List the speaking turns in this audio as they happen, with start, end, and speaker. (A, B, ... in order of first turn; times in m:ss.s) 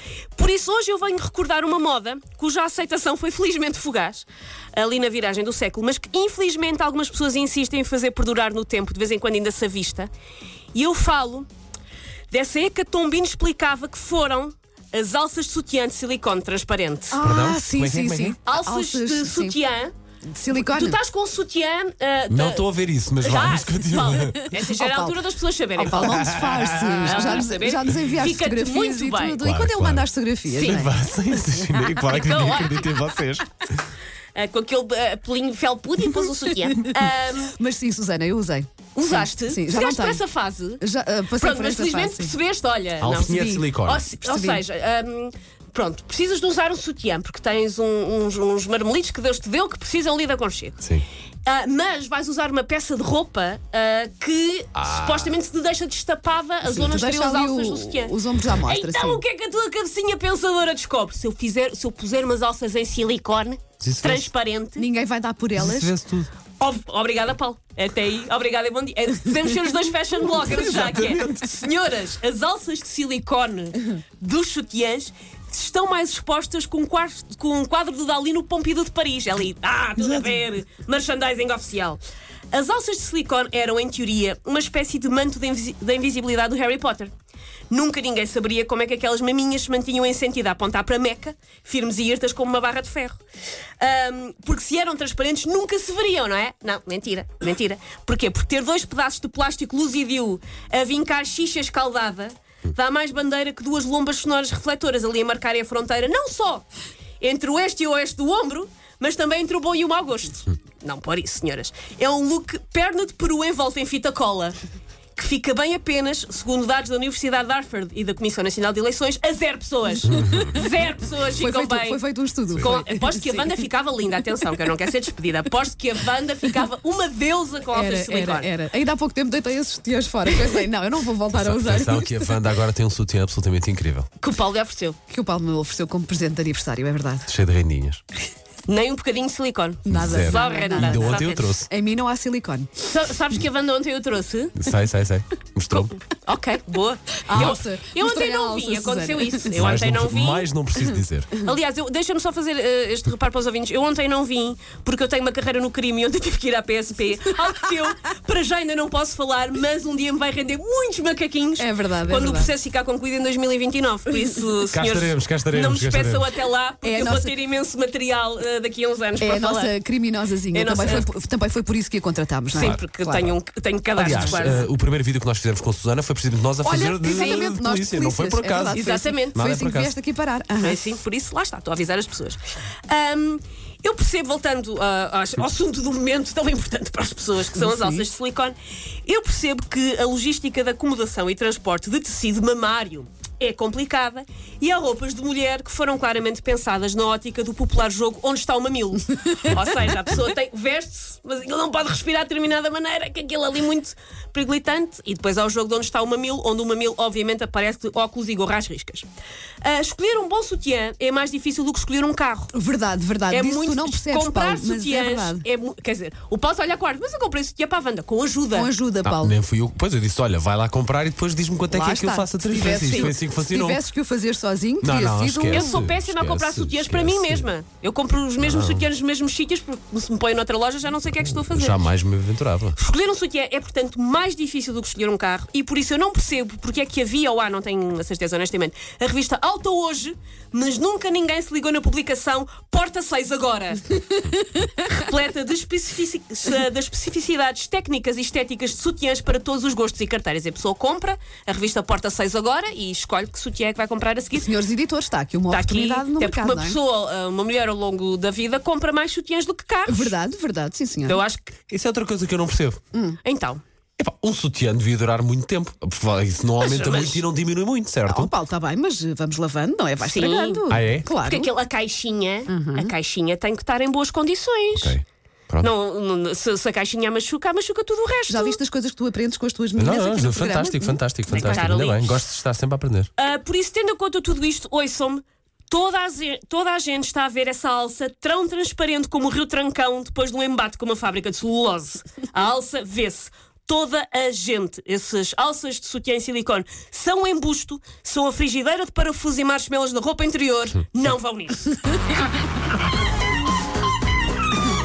0:00.4-0:10.1 A
0:10.7-0:11.5 A
0:12.3-0:17.2 A
0:17.1-0:19.6 B
0:17.2-0:18.4 C
0:18.4-0:19.9 A
0:20.3-0:21.0 B
0:20.5-0:22.7 A
0:22.3-0:24.5 C
0:23.2-0:26.2 A
0:24.2-0:25.2 B
0:25.8-0:30.9 B
0:26.0-0:27.5 C
0:27.0-0:29.4 A
0:29.4-0:33.8 C
0:30.6-0:30.9 A
0:32.0-0:33.0 A
0:34.3-0:37.6 A
0:36.2-0:37.0 B
0:37.6-0:40.2 B
0:38.9-0:40.8 A
0:40.8-0:42.4 B
0:41.4-0:50.8 A
0:43.0-0:44.0 C
0:43.2-0:44.6 B
0:51.4-1:04.9 A
0:54.8-0:55.3 C
0:56.6-0:59.2 B
1:03.8-1:04.3 C
1:04.8-1:05.9 B
1:05.6-1:06.3 C
1:06.6-1:22.0 A
1:10.5-1:11.5 C
1:22.5-1:27.1 A
1:27.7-1:33.2 A
1:33.8-1:46.6 A
1:47.2-1:54.6 A
1:55.2-2:02.0 A
2:00.1-2:00.5 C
2:00.2-2:00.6 B
2:01.3-2:03.5 B
2:02.6-2:08.5 A
2:07.7-2:12.4 B
2:11.3-2:14.1 C
2:14.2-2:15.0 A
2:15.1-2:17.3 B
2:17.2-2:18.0 C
2:18.6-2:21.5 A
2:19.8-2:22.7 B
2:19.9-2:21.7 C
2:22.8-2:24.5 A
2:24.6-2:26.0 C
2:26.2-2:30.5 A
2:27.2-2:29.5 B
2:29.5-2:31.4 C
2:31.3-2:49.7 A
2:41.6-2:42.5 B
2:44.7-2:46.3 C
2:46.8-2:47.3 B
2:49.2-2:53.3 B
2:50.5-2:51.1 A
2:52.5-2:54.7 A
2:54.0-2:59.9 C
2:54.0-2:54.5 B
2:56.6-3:00.9 B
2:57.0-2:57.5 A
2:58.7-2:59.4 A
3:00.6-3:29.0 A
3:07.6-3:08.0 B
3:29.6-3:32.5 A
3:32.5-3:35.4 B
3:33.3-3:38.7 A
3:38.5-3:39.4 B
3:39.0-3:43.8 C
3:41.7-3:45.8 B
3:44.8-3:47.5 C
3:45.5-3:51.8 A
3:48.4-3:48.9 C
3:51.2-3:52.8 C
3:52.7-4:04.1 A
4:04.6-4:14.5 A
4:14.3-4:16.8 B
4:15.5-4:20.1 A
4:19.9-4:21.2 B
4:21.0-4:21.6 A
4:21.7-4:22.8 C
4:22.9-4:23.2 B
4:23.2-4:23.6 A
4:24.0-4:28.3 C
4:26.6-4:27.2 A
4:28.0-4:31.5 B
4:30.0-4:30.6 A
4:30.7-4:31.1 C
4:31.1-4:34.9 A
4:32.5-4:32.9 B
4:34.7-4:35.7 C
4:35.6-4:38.6 A
4:38.3-4:41.0 B
4:39.7-4:43.1 C
4:41.3-4:42.1 A
4:43.2-5:01.8 A